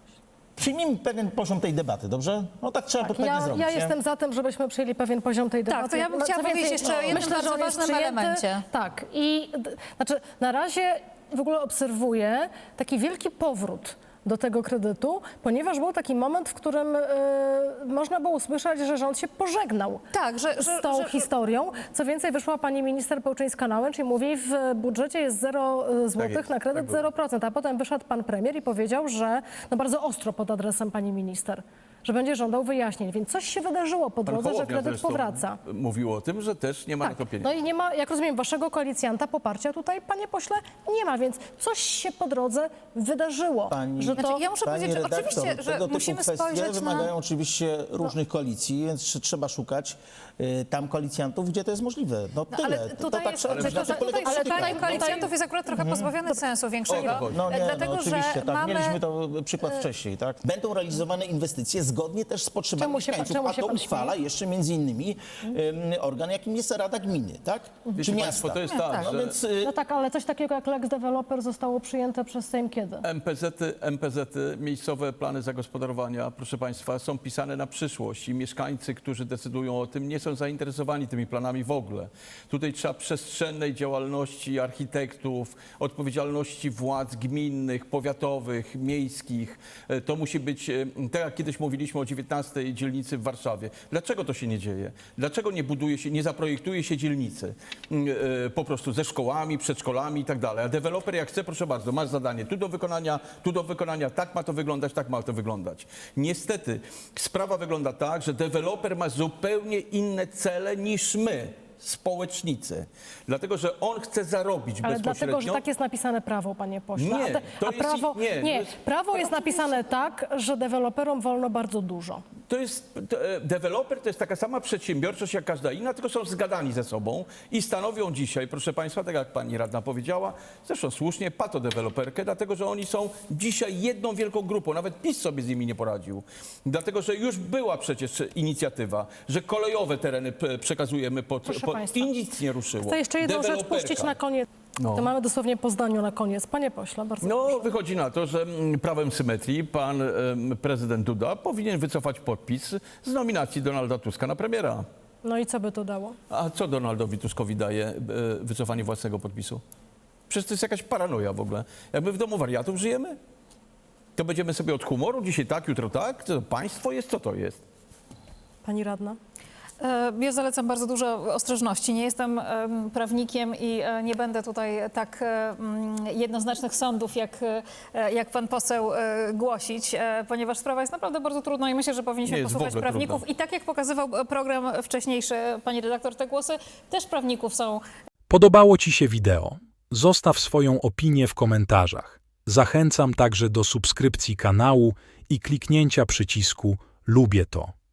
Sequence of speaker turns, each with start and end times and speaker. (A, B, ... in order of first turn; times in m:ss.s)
0:00.6-0:04.0 A
0:03.0-0:20.0 B
0:05.7-0:08.6 C
0:06.9-0:07.2 A
0:20.1-0:21.3 C
0:20.6-0:35.6 B
0:26.2-0:27.0 D
0:34.2-0:37.5 D
0:37.0-0:44.4 B
0:43.7-0:55.2 A
0:44.2-0:47.1 C
0:52.5-0:59.0 C
0:53.5-0:53.9 D
0:53.6-0:55.3 B
0:55.8-0:56.1 A
0:56.8-0:57.4 D
0:56.9-1:09.7 A
1:02.8-1:04.1 B
1:08.0-1:09.4 D
1:08.7-1:09.1 C
1:09.6-1:13.0 B
1:13.0-1:55.6 D
1:54.8-2:02.2 B
1:57.0-1:59.7 D
2:02.5-2:24.2 D
2:21.4-2:22.1 B
2:22.8-2:27.8 B
2:24.8-2:25.1 D
2:27.2-2:34.8 D
2:35.2-2:36.2 B
2:36.3-2:39.6 D
2:40.3-2:43.2 D
2:44.2-2:47.6 D
2:48.6-2:49.2 B
2:49.8-3:07.8 C
3:02.2-3:03.2 D
3:08.3-3:17.7 E